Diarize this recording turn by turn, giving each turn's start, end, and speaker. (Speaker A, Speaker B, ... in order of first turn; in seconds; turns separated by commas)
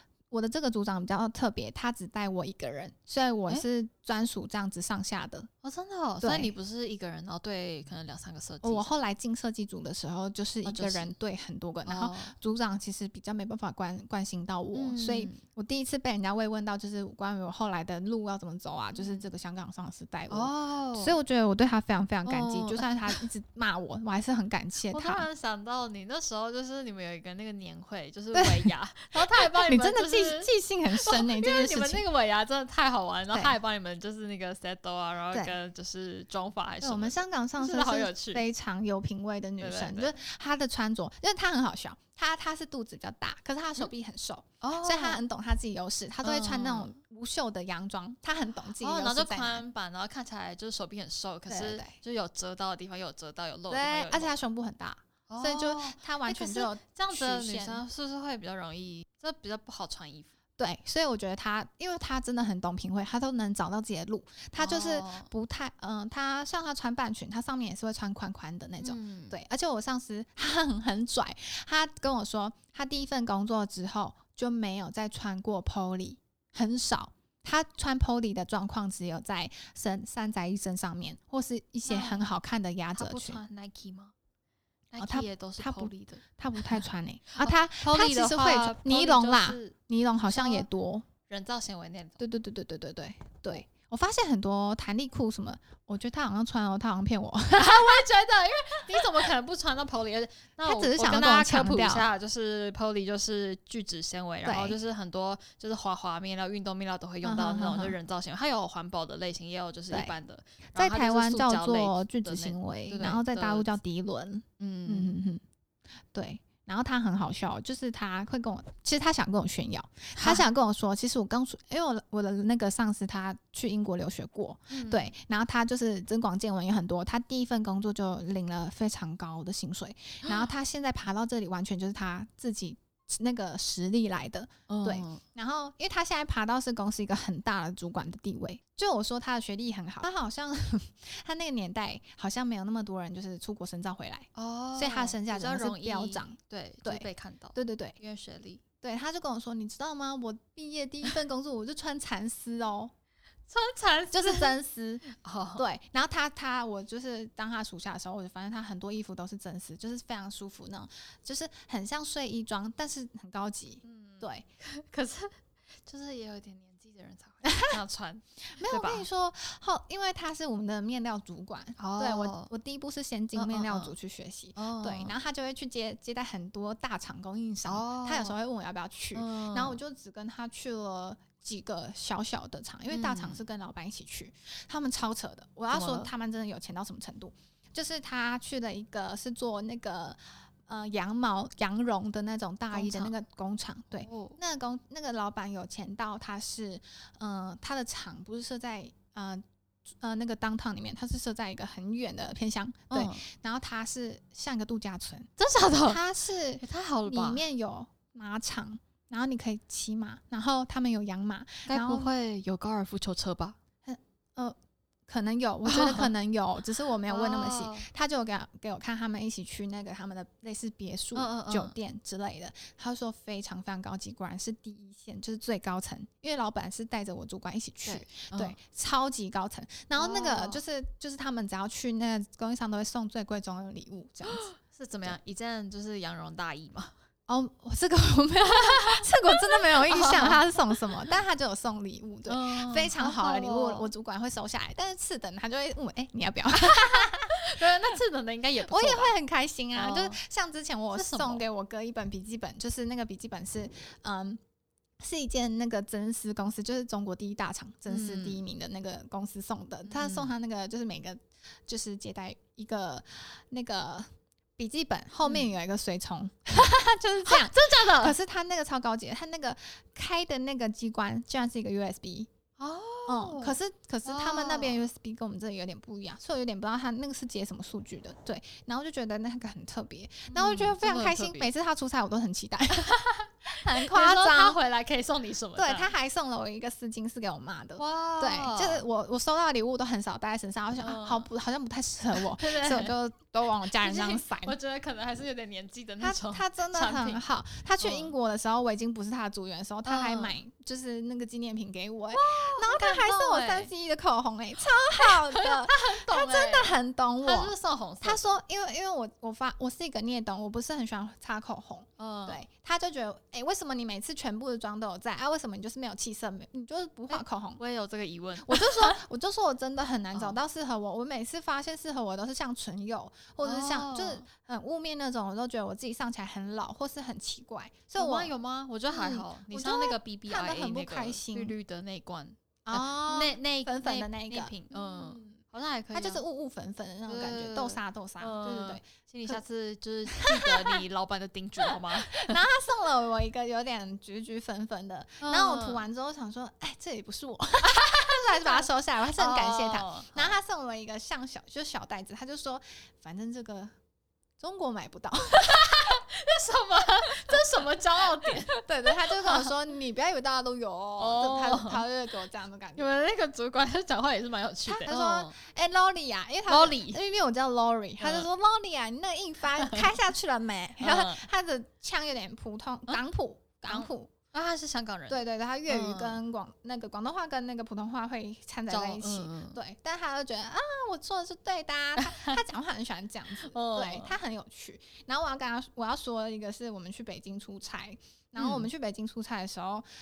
Speaker A: 0.3-5.5, Speaker B: 5.6-8.9, Speaker A: 6.2-6.5, Speaker A: 8.6-25.3, Speaker B: 10.7-11.1, Speaker B: 11.9-12.3, Speaker B: 14.7-15.4, Speaker B: 18.9-19.2, Speaker B: 20.3-21.1, Speaker B: 22.3-23.2, Speaker B: 24.9-38.5, Speaker A: 28.3-32.0, Speaker A: 33.3-33.6, Speaker A: 36.8-49.6, Speaker B: 39.6-40.1, Speaker B: 44.6-45.2, Speaker B: 46.2-47.0, Speaker B: 48.8-54.4, Speaker A: 51.5-51.9, Speaker A: 53.7-57.8, Speaker B: 55.3-60.3, Speaker A: 60.6-83.4, Speaker B: 64.6-65.3, Speaker B: 68.8-69.4, Speaker B: 81.8-82.3, Speaker B: 83.0-84.1, Speaker B: 84.9-89.8, Speaker A: 85.0-91.1, Speaker B: 90.3-90.7, Speaker B: 91.3-92.2, Speaker A: 92.2-98.0, Speaker B: 97.5-113.7, Speaker A: 100.6-102.1, Speaker A: 104.5-104.8, Speaker A: 107.2-108.0, Speaker A: 110.8-115.4, Speaker B: 114.6-115.2, Speaker A: 116.1-148.0, Speaker B: 120.2-120.5, Speaker B: 124.7-125.1, Speaker B: 134.7-135.2, Speaker B: 144.3-148.6, Speaker A: 148.8-152.9, Speaker B: 153.5-154.6, Speaker A: 154.1-155.1, Speaker B: 155.1-155.6, Speaker A: 155.6-164.4, Speaker B: 163.8-169.1, Speaker A: 167.4-167.8, Speaker A: 168.6-205.3, Speaker B: 171.8-172.5, Speaker B: 173.3-173.9, Speaker B: 174.6-175.2, Speaker B: 177.7-178.4, Speaker B: 179.2-179.8, Speaker B: 182.9-183.4, Speaker B: 185.7-186.1, Speaker B: 192.7-193.1, Speaker B: 193.9-194.4, Speaker B: 202.9-203.3, Speaker B: 205.4-206.0, Speaker A: 205.9-212.1, Speaker B: 206.6-207.4, Speaker B: 211.7-213.6, Speaker A: 213.8-214.6, Speaker A: 215.1-234.4, Speaker B: 215.7-216.1, Speaker B: 217.1-217.9, Speaker B: 221.2-221.8, Speaker B: 227.9-228.6, Speaker B: 230.0-230.6, Speaker B: 234.3-236.9, Speaker A: 237.3-247.4, Speaker B: 238.7-240.8, Speaker B: 242.3-243.9, Speaker B: 246.6-249.2, Speaker A: 248.6-254.4, Speaker B: 249.8-250.2, Speaker B: 250.9-251.4, Speaker A: 255.0-272.3, Speaker B: 257.9-258.4, Speaker B: 259.9-260.3, Speaker B: 267.2-268.2, Speaker B: 272.6-274.8, Speaker A: 273.1-282.9, Speaker B: 280.3-281.5, Speaker B: 282.7-285.9, Speaker A: 283.5-284.6, Speaker A: 285.6-294.6, Speaker B: 287.8-288.9, Speaker B: 290.8-291.3, Speaker B: 292.1-292.9, Speaker B: 293.8-297.2, Speaker A: 296.0-317.6, Speaker B: 297.8-298.1, Speaker B: 299.9-300.4, Speaker B: 302.1-303.7, Speaker B: 305.0-308.3, Speaker B: 312.0-312.4, Speaker B: 317.1-319.0, Speaker A: 318.4-328.3, Speaker B: 320.1-320.4, Speaker B: 323.4-324.3, Speaker B: 328.0-336.2, Speaker A: 328.9-331.6, Speaker A: 332.7-335.3, Speaker A: 335.9-339.4, Speaker B: 337.1-342.4, Speaker A: 340.1-340.8, Speaker A: 341.6-353.7, Speaker B: 345.2-345.8, Speaker B: 347.6-350.4, Speaker A: 354.4-356.0, Speaker B: 355.4-359.5, Speaker A: 358.2-362.9, Speaker B: 361.0-361.8, Speaker B: 362.8-365.3, Speaker A: 364.7-374.1, Speaker B: 366.5-367.0, Speaker B: 368.0-368.3, Speaker B: 370.8-371.2, Speaker B: 373.7-376.2, Speaker A: 375.1-389.9, Speaker B: 378.7-379.6, Speaker B: 382.0-382.4, Speaker B: 383.4-384.2, Speaker B: 388.4-388.7